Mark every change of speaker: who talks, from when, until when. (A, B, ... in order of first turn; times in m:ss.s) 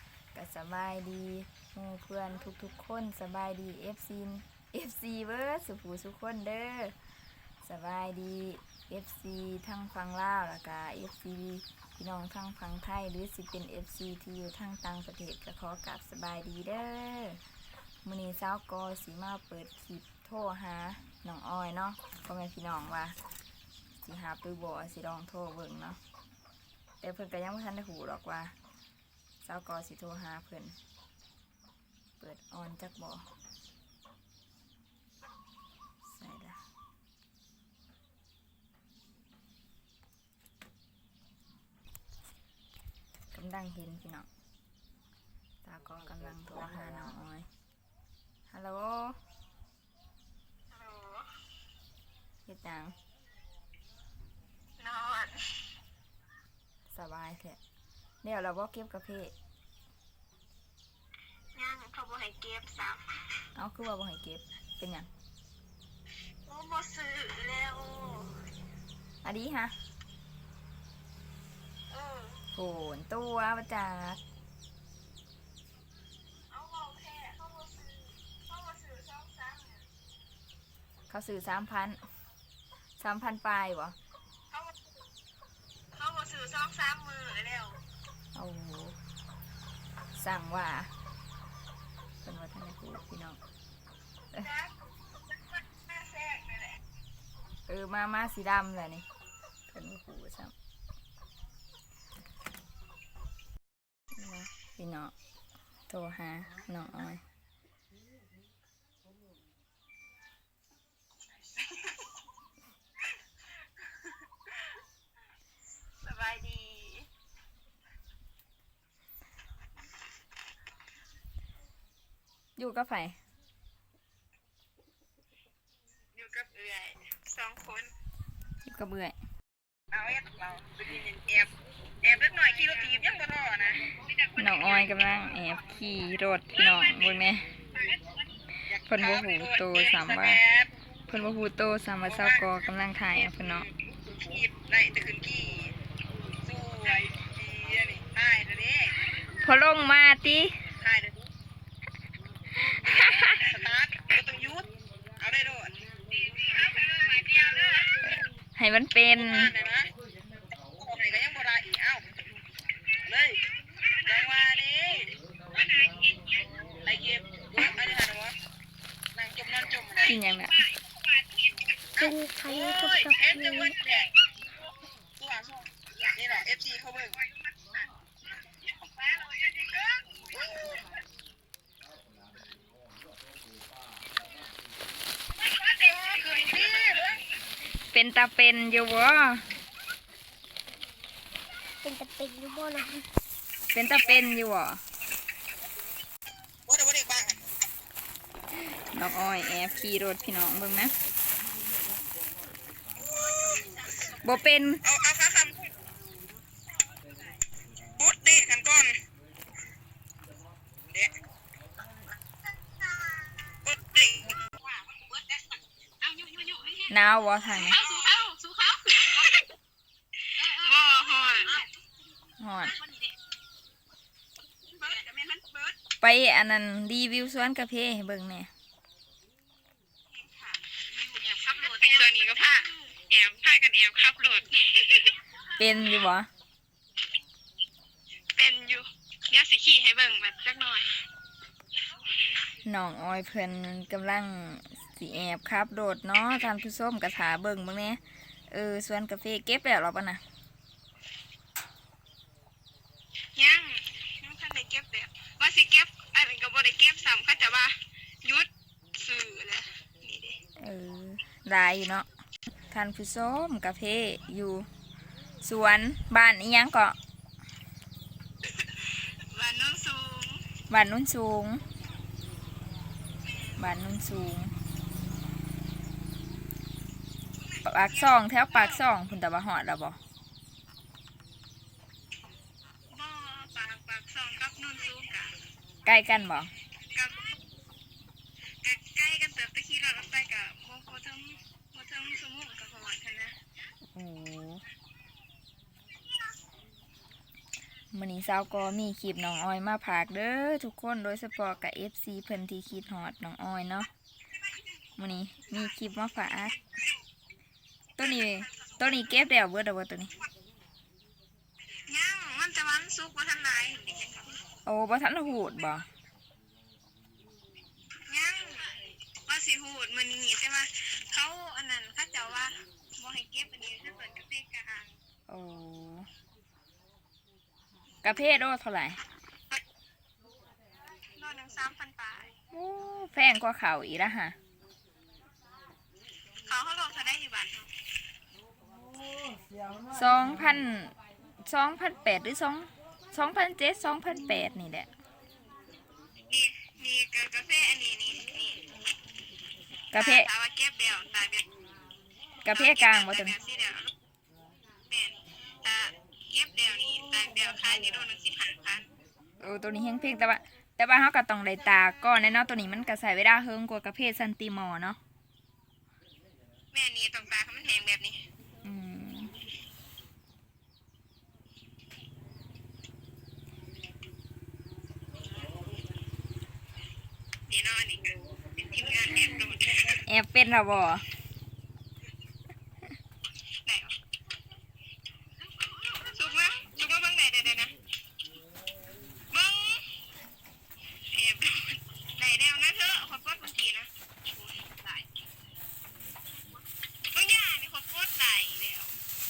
0:00.3-0:06.9 A
0:07.6-0:17.4 A
0:18.0-0:23.2 A
0:24.0-0:26.0 A
0:27.0-0:28.5 A
0:29.4-0:30.8 A
0:32.2-0:33.2 A
0:36.0-0:36.6 A
0:43.3-0:44.3 A
0:45.6-0:47.5 A
0:48.5-0:49.2 A
0:50.7-0:51.3 B
0:52.4-0:52.9 A
0:54.8-0:55.6 B
0:56.9-0:57.6 A
0:58.2-0:59.3 A
1:01.5-1:03.0 B
1:03.6-1:05.1 A
1:06.4-1:08.4 B
1:09.2-1:09.7 A
1:11.9-1:12.4 B
1:12.5-1:14.2 A
1:16.5-1:19.9 B
1:21.1-1:22.0 A
1:23.0-1:24.0 A
1:24.5-1:24.8 B
1:25.9-1:27.8 B
1:28.3-1:29.0 A
1:30.1-1:30.9 A
1:32.2-1:33.4 A
1:34.4-1:34.7 B
1:35.6-1:36.8 B
1:37.7-1:39.0 A
1:39.7-1:40.5 A
1:44.1-1:45.1 A
1:45.9-1:47.2 A
1:51.6-1:52.0 B
1:56.0-1:57.1 B
2:02.6-2:03.2 A
2:06.1-2:07.9 B
2:08.6-2:09.2 A
2:09.9-2:11.5 B
2:12.0-2:14.9 B
2:14.4-2:17.5 A
2:16.5-2:18.0 B
2:18.7-2:20.7 B
2:18.8-2:20.4 A
2:21.1-2:23.7 A
2:22.0-2:22.4 B
2:24.0-2:25.7 B
2:26.4-2:29.0 B
2:29.4-2:30.6 A
2:30.8-2:31.3 B
2:32.7-2:33.4 A
2:32.8-2:35.7 B
2:36.3-2:38.0 B
2:38.0-2:39.5 A
2:39.1-2:39.9 B
2:40.8-2:42.0 B
2:43.0-2:46.2 B
2:46.8-2:48.3 B
2:49.1-2:50.7 B
2:50.0-2:50.6 A
2:52.0-2:53.8 C
2:52.0-2:54.1 B
2:55.2-2:57.3 B
2:58.8-3:00.8 B
3:05.4-3:07.2 B
3:07.9-3:09.4 A
3:11.8-3:13.1 C
3:13.7-3:14.8 A
3:16.6-3:17.4 B
3:18.7-3:20.9 A
3:23.1-3:24.2 B
3:24.2-3:24.8 A
3:24.8-3:25.7 B
3:27.9-3:29.0 B
3:32.9-3:35.5 B
3:36.0-3:36.9 B
3:36.9-3:37.8 A
3:37.5-3:39.3 B
3:40.4-3:41.7 B
3:42.4-3:42.8 A
3:42.6-3:43.1 B
3:44.7-3:45.7 B
3:46.0-3:48.5 A
3:50.1-3:55.2 B
3:55.6-3:56.3 A
3:58.3-4:01.0 B
4:02.6-4:10.2 A
4:13.4-4:20.4 B
4:20.6-4:22.1 A
4:22.7-4:24.7 A
4:25.4-4:27.0 A
4:28.5-4:30.4 B
4:30.7-4:31.6 A
4:33.2-4:33.6 B
4:33.6-4:34.5 A
4:37.4-4:38.8 B
4:37.6-4:40.0 A
4:42.9-4:45.4 B
4:45.8-4:46.5 A
4:46.9-4:47.3 B
4:48.6-4:53.3 B
4:53.9-4:54.6 A
4:57.9-5:03.9 A
5:05.0-5:06.6 A
5:08.0-5:09.0 B
5:08.0-5:10.1 A
5:11.9-5:14.4 B
5:14.6-5:15.9 A
5:18.1-5:18.7 B
5:19.2-5:25.0 B
5:25.3-5:26.1 A
5:28.0-5:29.0 A
5:31.1-5:32.3 B
5:32.5-5:34.4 A
5:36.4-5:37.7 B
5:39.9-5:40.9 A
5:41.4-5:44.9 A
5:46.3-5:48.6 B
5:49.9-5:50.3 A
5:49.9-5:51.5 B
5:52.4-5:53.4 A
5:52.5-5:53.9 B
5:54.9-5:58.9 B
5:59.4-6:05.0 A
6:06.7-6:08.2 B
6:08.6-6:09.3 A
6:17.5-6:20.0 B
6:20.0-6:21.0 A
6:23.6-6:23.9 B
6:25.6-6:27.7 B
6:29.3-6:29.9 B
6:31.1-6:35.1 B
6:36.5-6:38.9 B